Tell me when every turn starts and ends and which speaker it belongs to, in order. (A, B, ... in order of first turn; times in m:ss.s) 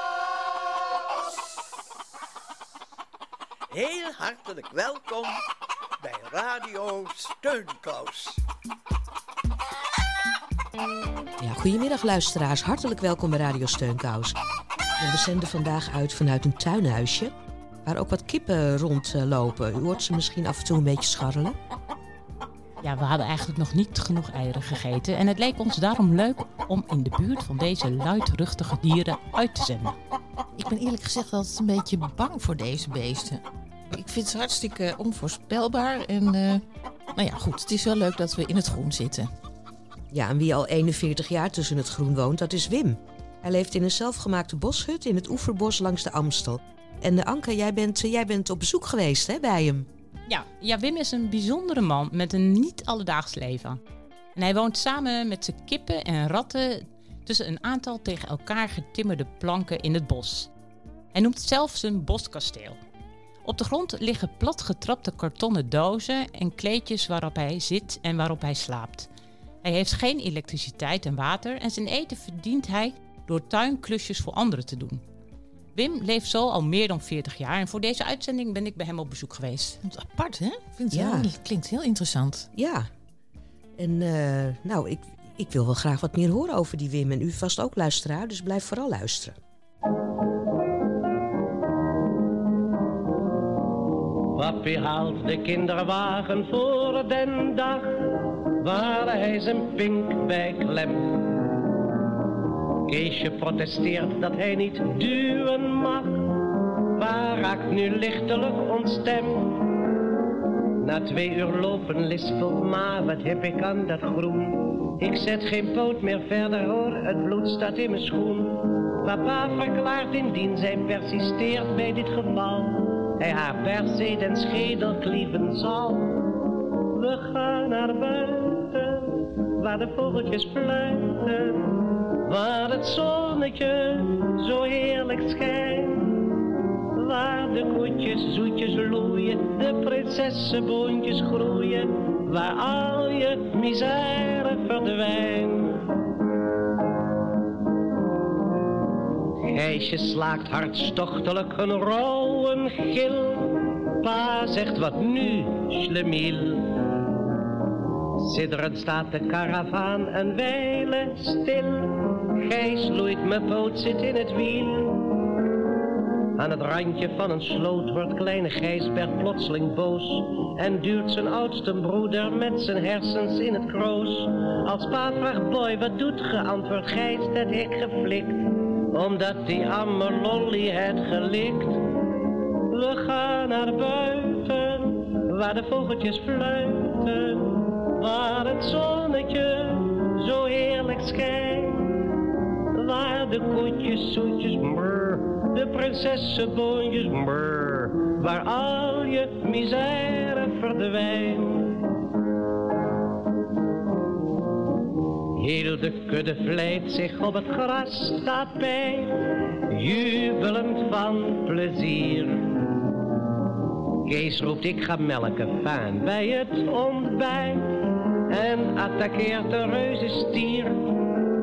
0:03.7-0:05.4 A
0:06.0-0:08.4 A
0:11.4-0:14.4 B
0:15.0-0:21.6 B
0:22.8-0:30.0 C
0:30.6-0:36.6 D
0:37.1-0:39.3 D
0:40.1-0:49.9 B
0:50.3-0:53.8 C
0:54.3-1:00.5 C
1:01.1-1:02.8 C
1:03.4-1:09.1 C
1:09.6-1:15.0 C
1:15.7-1:19.8 C
1:19.8-1:22.5 D
1:20.9-1:21.3 B
1:22.5-1:22.9 B
1:23.8-1:29.4 B
1:34.3-1:41.3 E
1:42.9-1:46.3 E
1:47.0-1:49.7 E
1:50.8-2:06.2 E
2:06.9-2:11.7 E
2:12.2-2:16.3 E
2:17.0-2:25.9 E
2:29.5-2:36.8 E
2:38.2-2:45.1 E
2:46.4-3:01.9 E
3:02.7-3:11.9 E
3:12.7-3:21.8 E
3:25.4-3:32.6 E
3:34.0-3:41.0 E